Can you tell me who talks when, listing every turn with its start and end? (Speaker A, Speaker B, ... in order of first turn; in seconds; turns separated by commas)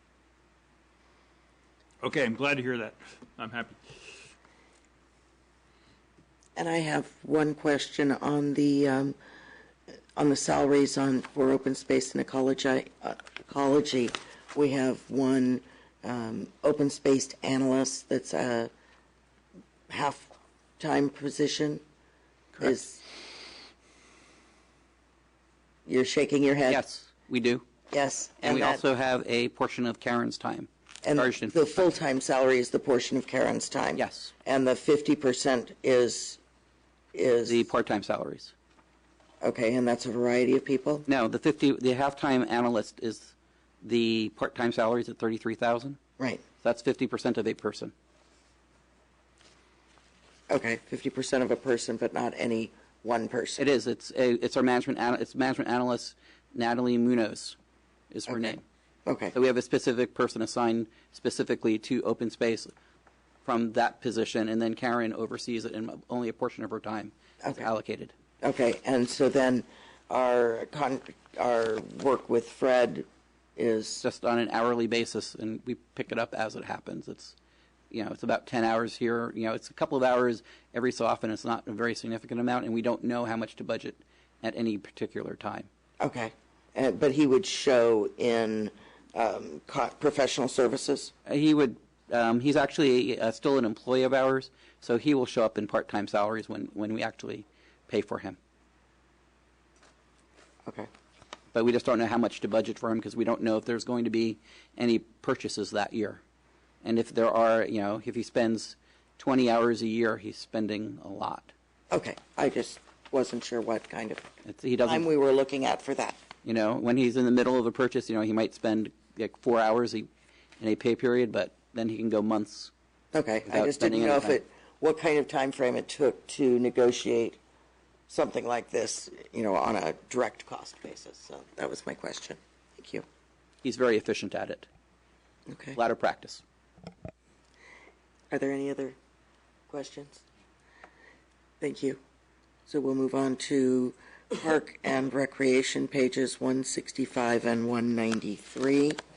Speaker A: 2.0-4.1, Speaker B: 6.6-9.2, Speaker B: 10.2-18.7, Speaker B: 19.9-21.8, Speaker B: 22.6-23.1, Speaker B: 25.9-26.8, Speaker C: 26.7-27.6, Speaker B: 27.9-28.9, Speaker C: 28.4-31.6, Speaker B: 31.0-36.4, Speaker C: 34.0-34.3, Speaker B: 37.1-37.7, Speaker C: 37.5-38.5, Speaker B: 39.4-41.1, Speaker C: 41.1-46.0, Speaker B: 46.2-46.4, Speaker C: 46.6-47.9, Speaker B: 50.5-53.6, Speaker C: 53.6-57.6, Speaker C: 58.1-58.6, Speaker B: 58.3-59.3, Speaker C: 59.3-62.7, Speaker C: 63.5-68.1, Speaker B: 67.4-67.7, Speaker B: 68.4-73.1, Speaker B: 73.6-74.0, Speaker C: 74.0-77.3, Speaker C: 77.9-85.7, Speaker B: 86.0-91.1, Speaker C: 91.3-98.4, Speaker C: 101.5-106.2, Speaker C: 106.8-111.5, Speaker B: 111.9-114.3, Speaker C: 114.5-115.1, Speaker B: 114.8-116.2, Speaker C: 116.4-120.1, Speaker C: 120.6-122.7, Speaker B: 123.1-127.4, Speaker C: 123.5-124.4, Speaker B: 128.1-133.1, Speaker C: 133.6-134.7, Speaker B: 135.5-135.8, Speaker C: 135.8-136.4, Speaker B: 138.3-139.0, Speaker B: 139.7-140.2, Speaker B: 141.6-142.0, Speaker B: 142.7-149.0